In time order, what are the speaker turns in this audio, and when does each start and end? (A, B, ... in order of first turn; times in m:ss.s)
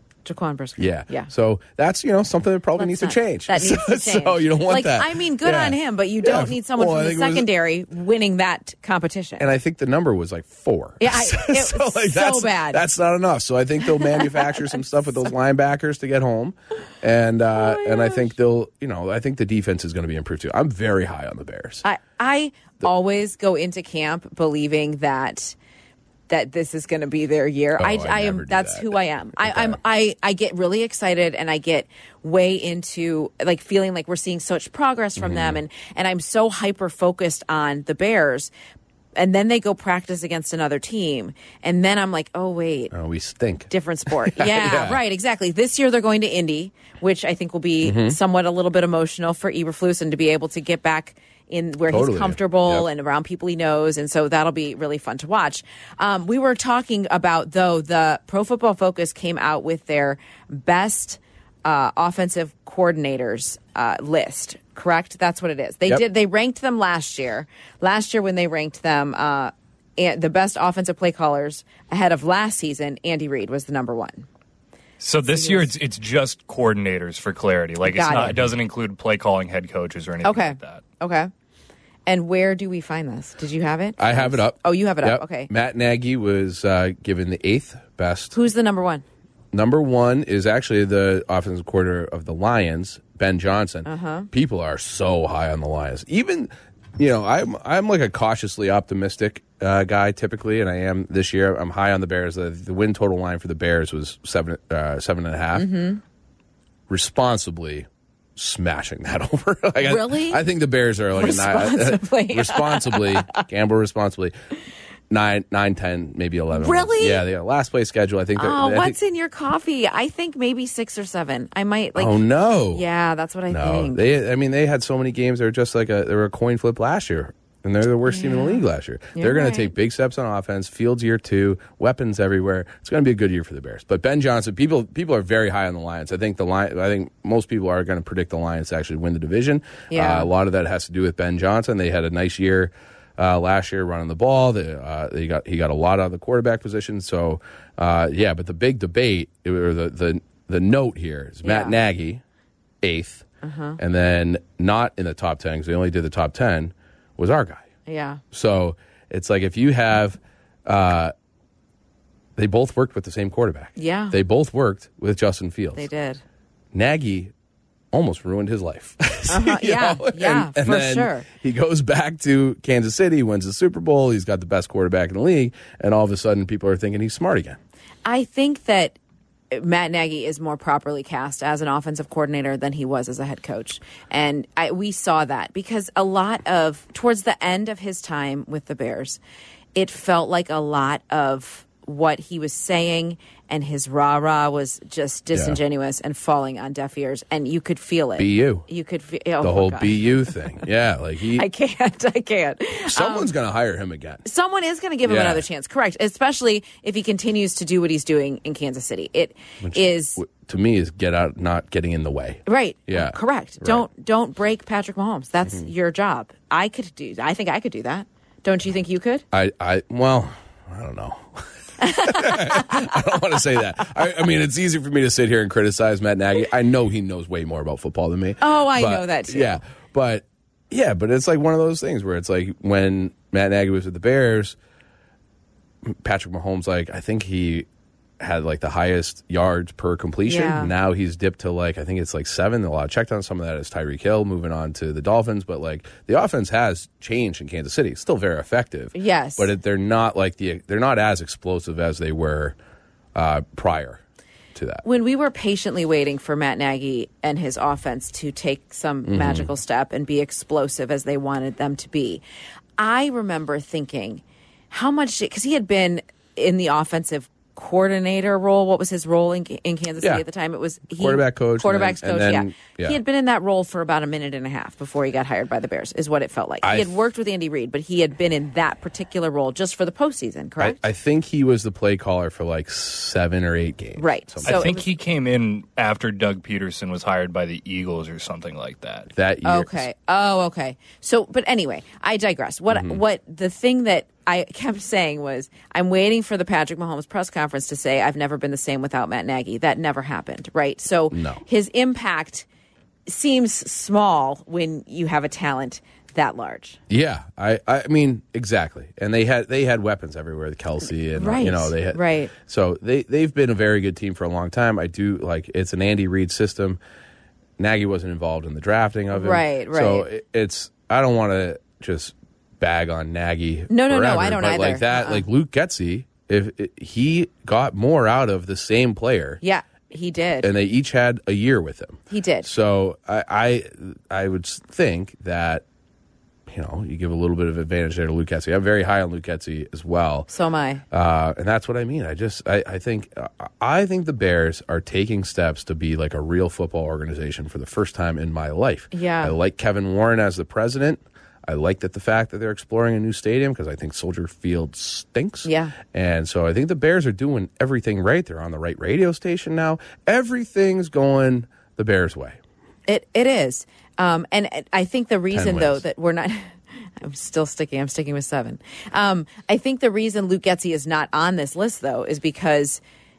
0:00.2-0:01.3 A
0:00.8-0:07.5 B
0:02.8-0:09.5 A
0:09.4-0:21.8 B
0:11.0-0:12.8 A
0:14.0-0:14.6 A
0:17.6-0:18.2 A
0:21.8-0:25.6 A
0:26.3-0:38.5 A
0:27.8-0:29.8 B
0:35.2-0:35.6 B
0:39.2-0:42.9 A
0:42.9-0:45.0 B
0:43.7-1:14.3 A
0:47.8-0:48.2 B
0:51.9-0:52.9 B
1:15.0-1:20.8 C
1:15.3-1:15.7 A
1:17.8-1:18.4 A
1:18.1-1:18.5 B
1:20.2-1:21.3 A
1:22.1-1:25.5 A
1:24.0-1:28.3 B
1:28.3-1:29.0 A
1:29.5-1:45.7 B
1:33.8-1:34.3 A
1:45.5-1:46.0 A
1:46.9-1:54.3 B
1:49.8-1:50.4 A
1:51.2-1:53.4 A
1:55.1-1:59.0 B
1:56.5-1:57.2 A
1:58.4-2:02.2 A
2:02.0-2:02.8 B
2:02.7-2:04.0 A
2:03.5-2:32.2 B
2:08.0-2:08.6 A
2:09.2-2:09.7 A
2:19.9-2:20.3 A
2:31.4-2:31.8 A
2:32.8-2:33.3 B
2:33.4-2:33.8 A
2:33.8-2:37.7 B
2:37.9-2:38.2 A
2:38.3-2:41.1 B
2:42.4-2:45.9 B
2:43.8-2:44.2 A
2:45.8-2:46.2 A
2:46.7-2:47.3 B
2:47.9-2:57.6 B
2:49.3-2:51.3 A
2:58.0-2:59.0 A
2:59.5-3:09.2 A
3:09.8-3:20.6 A
3:15.3-3:15.6 B
3:18.2-3:18.7 B
3:19.4-3:21.5 B
3:21.3-3:23.3 A
3:22.9-3:24.2 B
3:24.2-3:30.2 A
3:25.0-3:25.4 B
3:29.6-3:33.9 B
3:32.5-3:39.2 A
3:39.3-3:54.6 B
3:41.8-3:42.9 A
3:48.4-3:49.6 A
3:55.8-3:57.7 B
3:58.2-4:12.6 B
4:00.2-4:00.7 A
4:09.0-4:09.5 A
4:13.2-4:14.0 B
4:14.6-4:14.8 B
4:14.8-4:22.2 A
4:19.1-4:19.5 B
4:22.8-4:40.8 A
4:30.9-4:33.0 B
4:36.6-4:37.0 B
4:40.6-4:44.8 B
4:44.0-4:44.9 A
4:44.4-4:49.1 C
4:49.1-4:49.9 B
4:49.4-5:02.5 A
4:52.7-4:53.0 B
5:01.1-5:01.4 B
5:03.1-5:06.8 A
5:06.9-5:16.8 B
5:11.2-5:12.3 A
5:17.6-5:29.4 B
5:19.1-5:20.1 A
5:23.7-5:25.2 A
5:29.4-5:30.5 A
5:30.4-5:35.6 B
5:32.1-5:32.5 A
5:36.5-5:40.3 B
5:40.3-5:40.8 A
5:40.9-6:02.4 B
5:48.9-5:49.4 A
5:55.4-5:55.8 A
6:02.9-6:12.8 A
6:05.3-6:05.8 B